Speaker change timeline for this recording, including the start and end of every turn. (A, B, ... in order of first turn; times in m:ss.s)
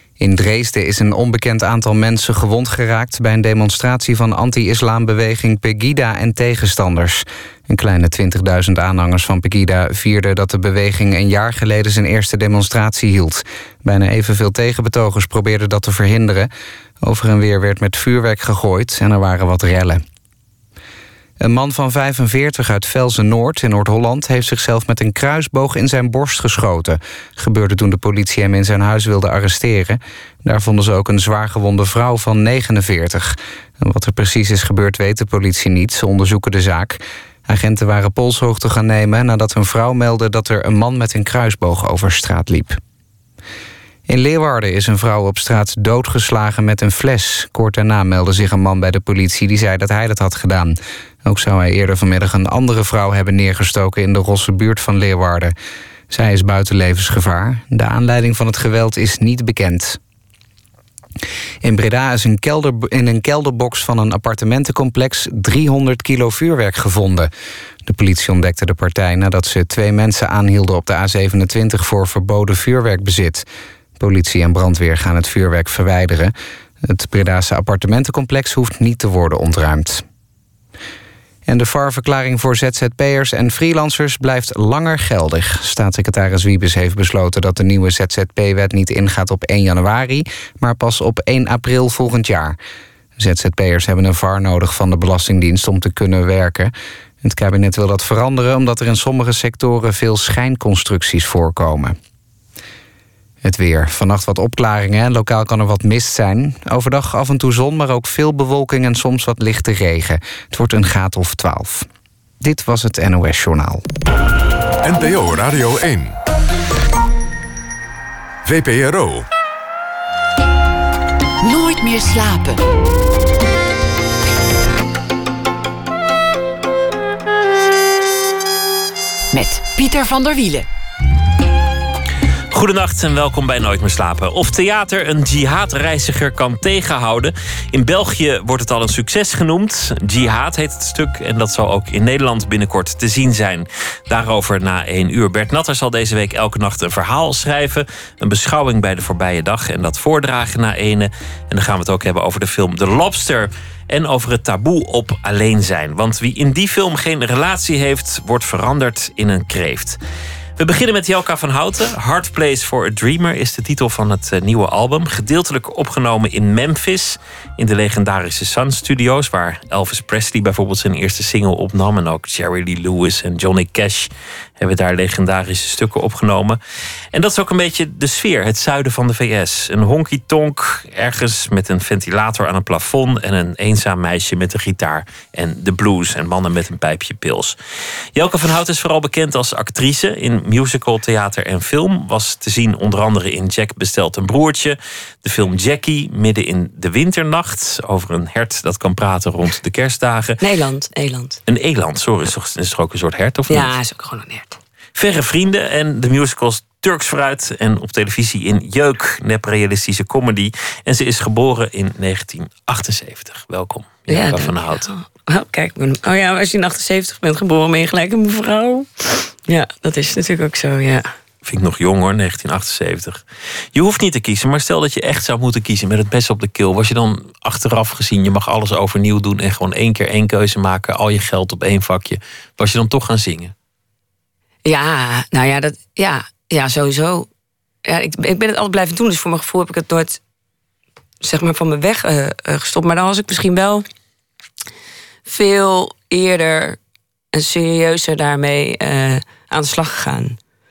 0:00.2-0:16.5 A
0:17.0-0:20.0 A
0:21.4-0:42.8 A
0:44.1-0:55.5 A
0:56.1-1:00.0 A
1:01.6-1:07.3 A
1:07.8-1:13.4 A
1:14.0-1:16.3 A
1:16.8-1:20.0 A
1:21.5-1:32.6 A
1:33.2-1:36.7 A
1:37.2-1:42.0 A
1:43.4-1:51.9 A
1:52.4-1:53.8 A
1:54.8-1:56.2 B
1:58.4-1:59.3 B
2:01.4-2:02.6 C
2:09.3-2:10.7 C
2:12.5-2:40.0 D
2:40.6-2:56.6 D
2:57.1-3:07.6 D
3:08.2-3:20.4 D
3:20.4-3:21.4 E
3:21.5-3:23.7 D
3:23.5-3:24.6 E
3:25.0-3:34.9 D
3:34.1-3:41.1 E
3:41.4-3:43.2 D
3:43.7-3:53.5 D
3:54.6-3:57.3 E
3:57.8-4:00.2 E
4:01.2-4:03.9 E
4:05.3-4:06.8 E
4:07.3-4:10.4 E